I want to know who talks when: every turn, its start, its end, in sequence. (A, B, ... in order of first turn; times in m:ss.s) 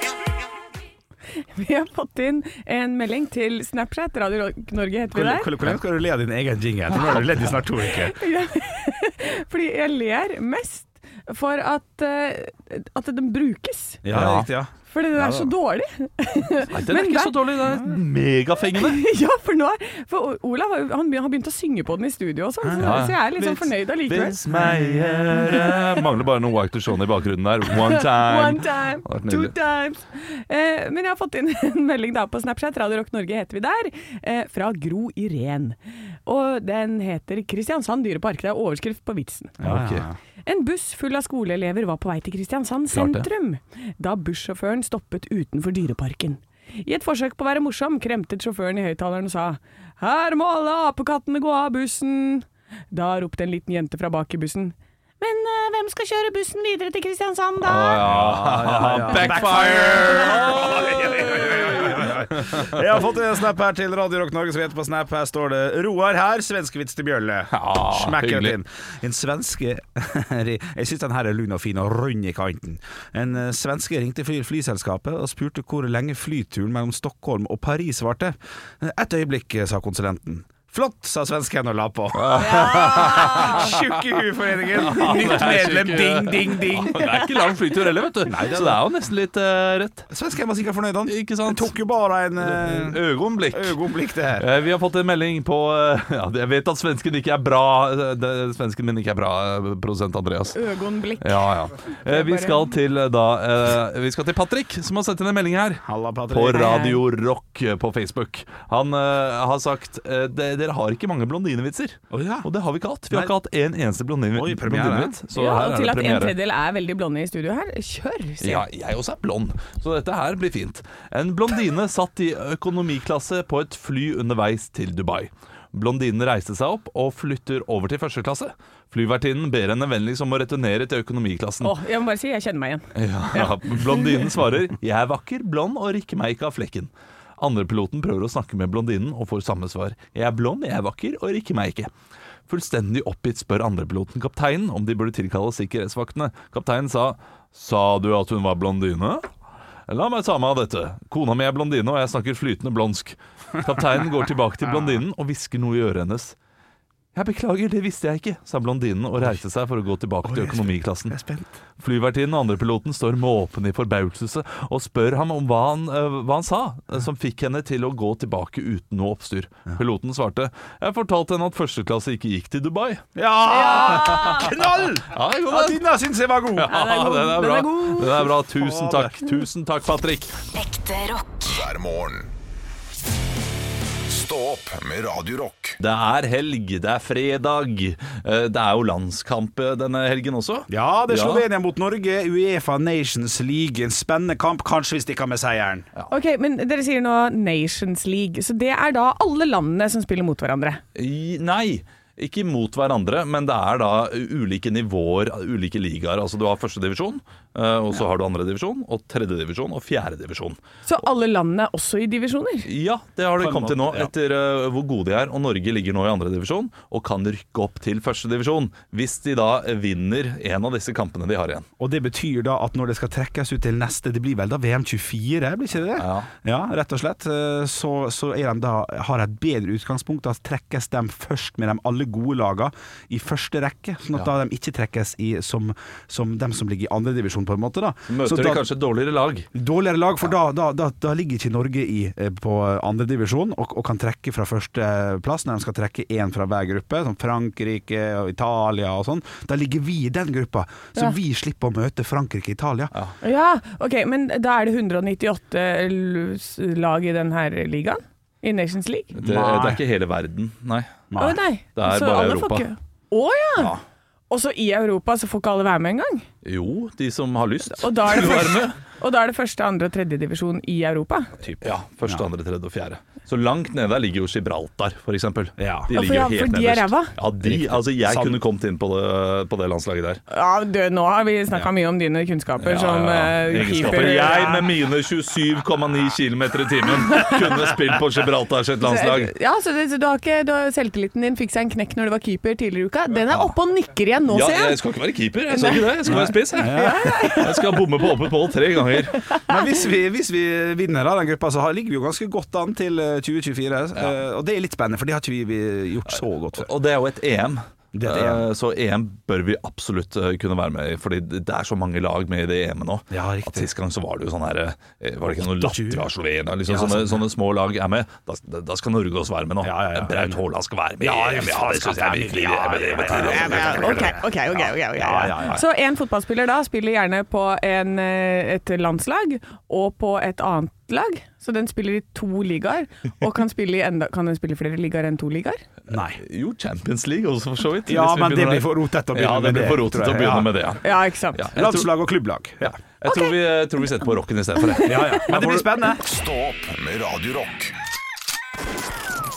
0:01.4-0:05.5 A
0:05.1-0:08.2 B
0:07.8-0:14.0 A
0:14.0-0:15.5 B
0:14.1-0:14.5 C
0:14.9-0:17.8 A
0:16.7-0:19.0 C
0:18.7-0:26.0 A
0:22.6-0:23.0 B
0:22.8-0:29.5 C
0:24.5-0:25.1 B
0:27.7-0:39.6 A
0:39.6-0:40.2 B
0:39.6-0:40.0 C
0:40.4-0:58.0 A
0:42.9-0:43.2 C
0:57.6-1:02.8 C
0:58.0-1:27.4 B
0:59.1-1:01.0 A
1:07.5-1:08.6 C
1:22.1-1:23.9 C
1:22.4-1:23.7 A
1:24.7-1:30.1 C
1:28.2-1:28.8 B
1:30.1-1:34.5 B
1:31.0-1:31.7 C
1:32.4-1:33.8 C
1:34.4-1:40.6 C
1:40.5-1:42.7 A
1:41.2-1:56.4 C
1:45.8-1:46.7 B
1:46.5-1:47.0 A
1:52.1-1:52.5 B
1:54.3-1:55.1 B
1:55.3-1:58.6 A
1:58.4-2:11.8 C
2:11.6-2:14.2 A
2:12.9-2:21.9 C
2:22.5-2:29.3 C
2:29.9-2:36.4 C
2:37.1-2:41.2 C
2:40.2-2:41.6 B
2:41.8-2:53.0 C
2:53.2-2:56.8 B
2:53.5-2:54.5 A
2:53.7-2:54.5 C
2:55.1-2:55.8 C
2:56.6-3:00.4 C
2:56.7-2:58.4 A
2:58.6-2:59.3 B
3:00.5-3:02.3 D
3:04.1-3:05.8 D
3:05.8-3:11.4 C
3:10.7-3:15.9 B
3:16.1-3:20.8 A
3:20.9-3:30.6 C
3:30.8-3:32.7 A
3:32.6-3:41.6 C
3:33.4-3:34.1 B
3:41.8-3:58.6 B
3:46.0-3:46.3 C
3:58.1-3:59.5 C
3:59.5-4:12.9 B
4:13.2-4:19.2 A
4:19.1-4:21.1 C
4:19.2-4:19.8 B
4:21.1-4:21.4 B
4:21.2-4:23.7 A
4:21.7-4:22.7 C
4:24.3-4:26.3 A
4:26.4-4:28.8 C
4:27.8-4:31.3 A
4:31.4-4:32.2 B
4:31.6-4:40.2 C
4:35.6-4:35.9 B
4:35.9-4:37.1 A
4:37.4-4:38.4 B
4:40.3-4:44.7 A
4:42.6-4:49.3 C
4:47.1-4:47.5 A
4:48.8-4:54.8 A
4:54.3-4:59.3 C
4:55.5-4:57.8 A
4:56.1-4:57.2 B
4:59.2-4:59.5 A
4:59.4-5:06.7 B
5:06.5-5:24.2 C
5:07.9-5:08.5 B
5:13.1-5:13.7 B
5:15.4-5:16.0 B
5:16.6-5:17.2 B
5:19.6-5:20.4 B
5:21.0-5:25.6 B
5:23.3-5:35.6 A
5:35.9-5:36.2 B
5:35.9-5:41.9 C
5:37.8-5:40.5 B
5:40.8-5:41.5 A
5:41.5-5:42.7 B
5:42.6-5:45.7 C
5:44.8-5:46.0 B
5:46.0-5:47.7 D